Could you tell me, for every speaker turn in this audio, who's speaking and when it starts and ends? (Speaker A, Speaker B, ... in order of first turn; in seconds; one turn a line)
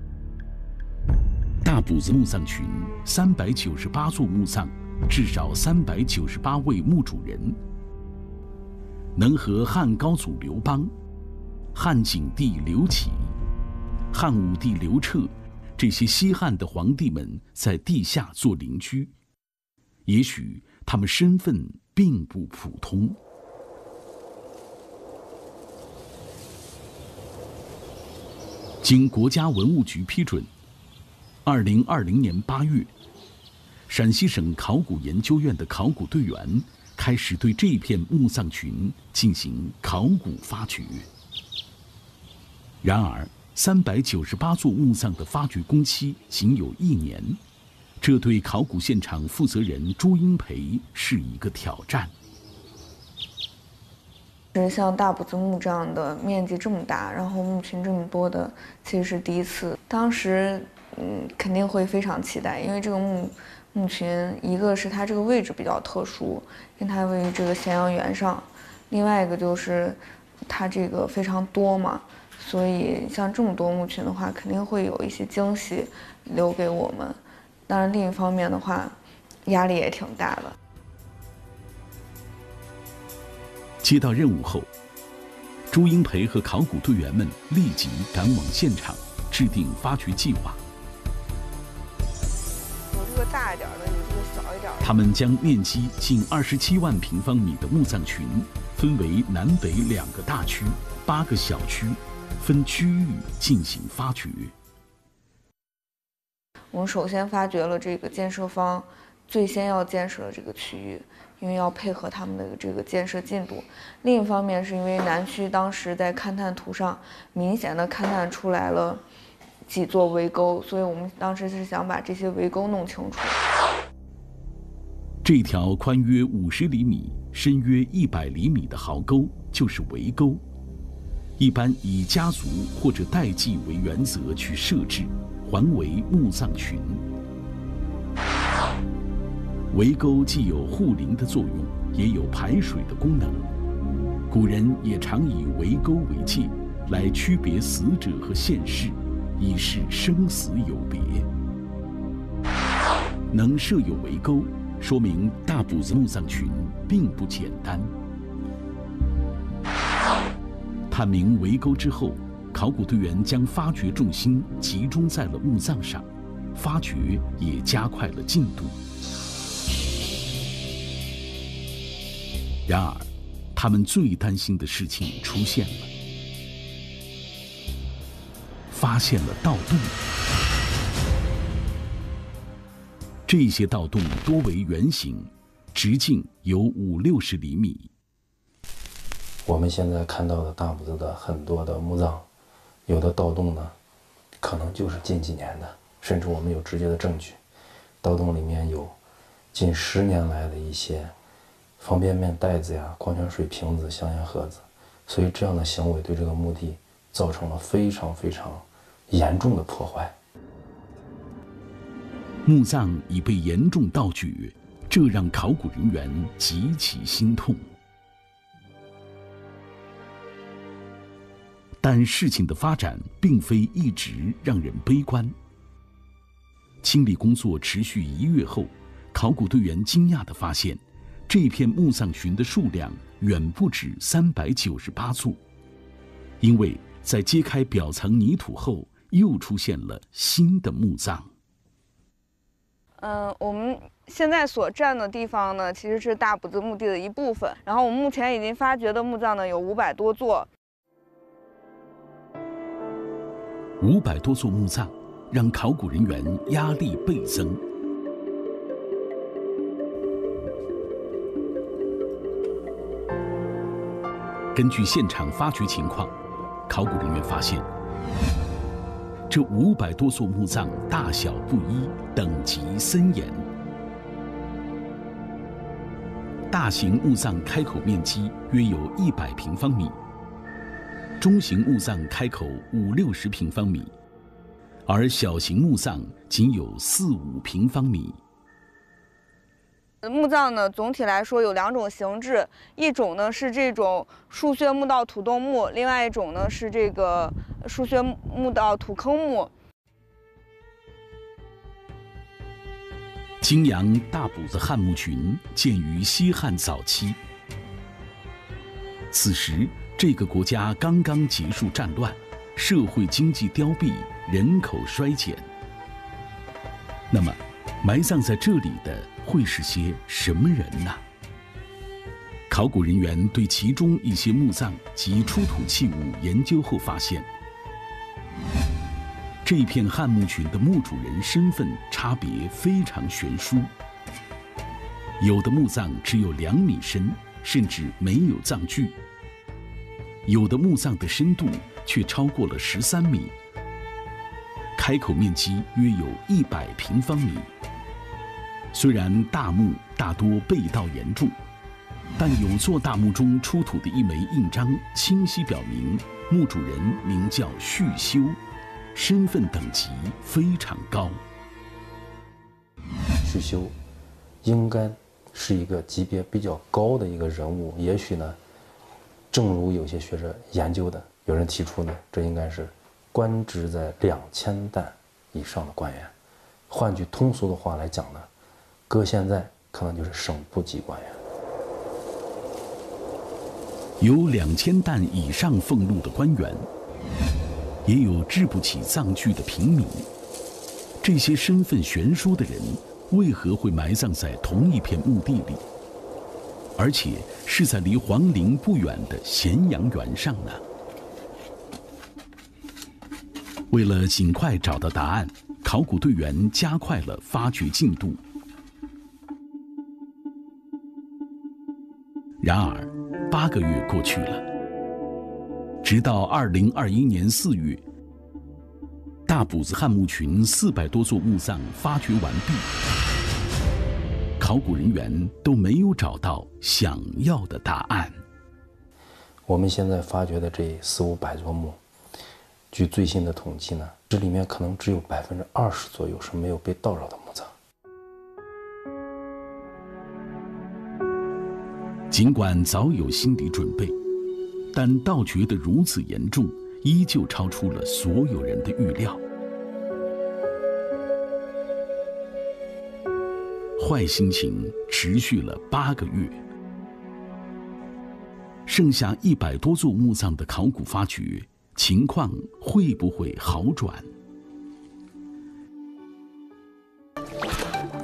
Speaker A: 1.6-7.6
Speaker A: 9.2-10.9
Speaker A: 11.7-13.3
Speaker A: 14.1-19.1
Speaker A: 20.1-23.2
Speaker A: 28.8-30.5
Speaker A: 31.4-32.9
Speaker A: 33.9-41.1
Speaker A: 42.8-47.4
Speaker A: 48.0-52.1
Speaker B: 54.5-80.6
Speaker A: 83.8-84.7
Speaker A: 85.7-90.6
Speaker B: 92.9-95.0
Speaker A: 94.8-104.5
Speaker B: 106.7-119.0
Speaker B: 119.7-123.4
Speaker A: 125.2-130.4
Speaker A: 131.4-137.0
Speaker A: 139.7-143.5
Speaker A: 144.3-151.3
Speaker A: 153.3-157.9
Speaker A: 160.9-168.8
Speaker A: 172.7-175.9
Speaker A: 178.7-179.9
Speaker A: 183.2-187.9
Speaker C: 189.4-192.3
Speaker C: 192.9-193.8
Speaker C: 194.4-197.4
Speaker C: 198.0-198.9
Speaker C: 199.5-201.1
Speaker C: 201.8-210.2
Speaker A: 212.4-217.6
Speaker A: 221.8-225.3
Speaker A: 226.8-235.4
Speaker A: 236.4-241.3
Speaker B: 243.0-250.5
Speaker A: 253.8-257.6
Speaker A: 264.5-266.1
Speaker A: 266.6-267.7
Speaker A: 269.3-273.5
Speaker A: 276.5-280.0
Speaker A: 281.2-283.9
Speaker A: 284.9-288.2
Speaker B: 290.0-299.5
Speaker A: 303.4-307.2
Speaker A: 309.1-315.5
Speaker A: 317.1-321.0
Speaker A: 322.5-327.3
Speaker A: 329.4-333.7
Speaker A: 335.2-338.9
Speaker A: 340.2-343.3
Speaker A: 344.7-347.5
Speaker A: 348.7-351.4
Speaker A: 352.2-358.4
Speaker A: 358.9-361.2
Speaker C: 363.2-363.8
Speaker C: 364.4-368.4
Speaker C: 369.3-376.1
Speaker C: 376.7-378.3
Speaker C: 378.9-381.2
Speaker A: 384.0-386.7
Speaker A: 387.8-390.1
Speaker A: 391.0-395.6
Speaker A: 396.8-400.6
Speaker A: 403.7-408.2
Speaker A: 412.4-414.4
Speaker A: 415.8-417.8
Speaker A: 419.3-422.7
Speaker A: 424.4-428.2
Speaker C: 429.4-431.8
Speaker C: 432.7-437.5
Speaker A: 442.1-444.0
Speaker A: 444.7-449.2
Speaker A: 453.8-456.4
Speaker A: 458.7-464.1